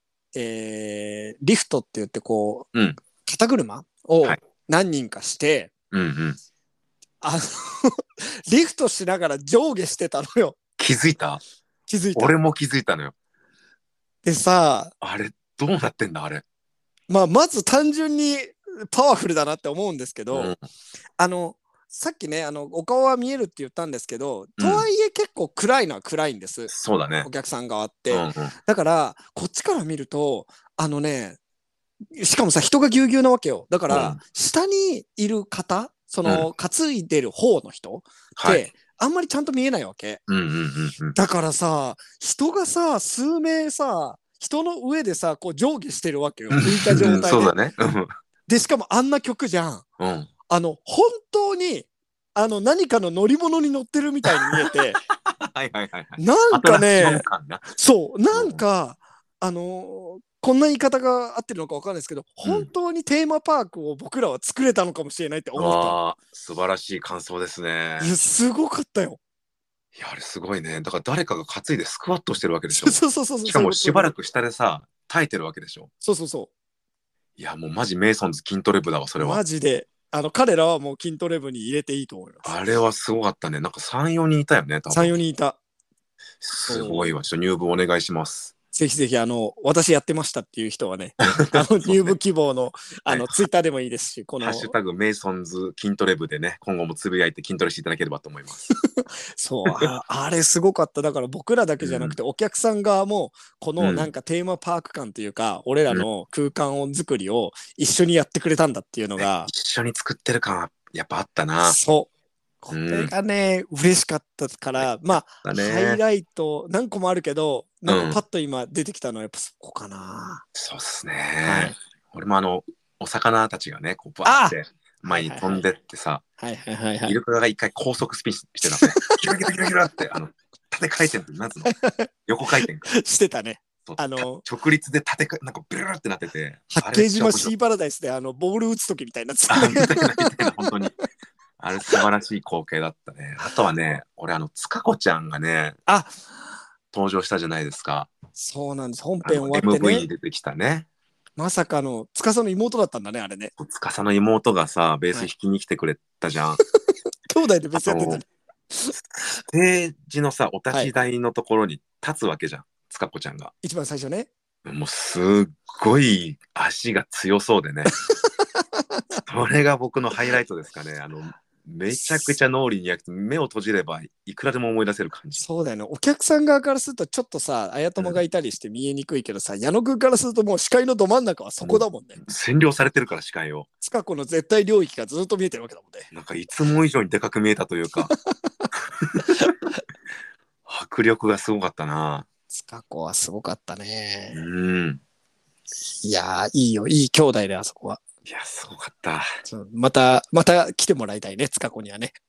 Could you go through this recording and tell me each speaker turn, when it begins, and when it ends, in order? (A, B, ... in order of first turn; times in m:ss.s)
0:00.4-0:05.7 A
0:05.9-0:06.4 B
0:07.2-0:10.6 A
0:10.8-0:11.4 B
0:11.9-0:12.4 A
0:12.2-0:13.2 B
0:14.2-0:14.9 A
0:15.0-0:16.4 B
0:17.1-0:20.5 A
0:20.3-0:20.6 B
0:21.2-0:26.7 A
0:24.6-0:24.9 B
0:26.7-0:27.3 B
0:27.2-0:31.4 A
0:28.1-0:28.5 B
0:32.2-0:40.2 A
0:33.9-0:34.2 B
0:38.4-0:38.6 B
0:40.3-0:41.2 B
0:41.2-0:47.5 A
0:46.5-0:48.1 B
0:48.5-0:49.8 A
0:50.0-0:50.3 B
0:50.5-0:55.0 A
0:54.4-0:57.6 B
0:56.2-1:06.0 A
0:58.3-0:58.6 B
1:05.6-1:08.1 B
1:08.0-1:09.2 A
1:10.0-1:15.9 B
1:12.7-1:14.1 A
1:16.0-1:16.5 A
1:17.4-1:19.4 B
1:19.2-1:22.6 A
1:22.4-1:25.1 B
1:24.9-1:25.6 A
1:26.4-1:28.5 B
1:26.7-1:27.2 A
1:28.7-1:34.7 A
1:31.2-1:32.2 B
1:33.1-1:33.4 B
1:34.4-1:38.7 B
1:38.7-1:49.5 A
1:41.8-1:42.2 B
1:43.8-1:44.1 B
1:49.2-1:51.8 B
1:51.6-1:52.1 A
1:52.6-2:00.5 A
1:52.7-1:53.1 B
1:54.8-1:56.0 B
1:57.9-1:58.2 B
2:00.6-2:06.2 B
2:01.4-2:01.8 A
2:04.2-2:05.6 A
2:06.4-2:07.2 A
2:07.1-2:11.8 B
2:08.7-2:09.2 A
2:11.6-2:14.4 A
2:12.3-2:12.9 B
2:13.9-2:17.5 B
2:16.7-2:20.9 A
2:19.5-2:21.0 B
2:21.6-2:25.8 B
2:25.9-2:26.4 A
2:26.9-2:28.1 B
2:28.4-2:30.1 A
2:29.2-2:30.9 B
2:31.4-2:33.5 A
2:33.6-2:36.6 B
2:37.3-2:39.0 A
2:37.8-2:38.2 B
2:39.0-2:43.5 B
2:43.6-2:44.3 A
2:44.6-2:47.9 B
2:47.9-2:49.2 A
2:49.3-2:55.4 B
2:55.4-3:02.2 A
3:01.6-3:03.7 B
3:03.8-3:06.1 A
3:06.1-3:08.1 B
3:08.2-3:09.8 A
3:09.0-3:09.5 B
3:10.7-3:12.3 B
3:12.5-3:14.4 A
3:14.3-3:15.0 B
3:15.9-3:18.0 A
3:18.3-3:19.3 B
3:19.5-3:22.2 A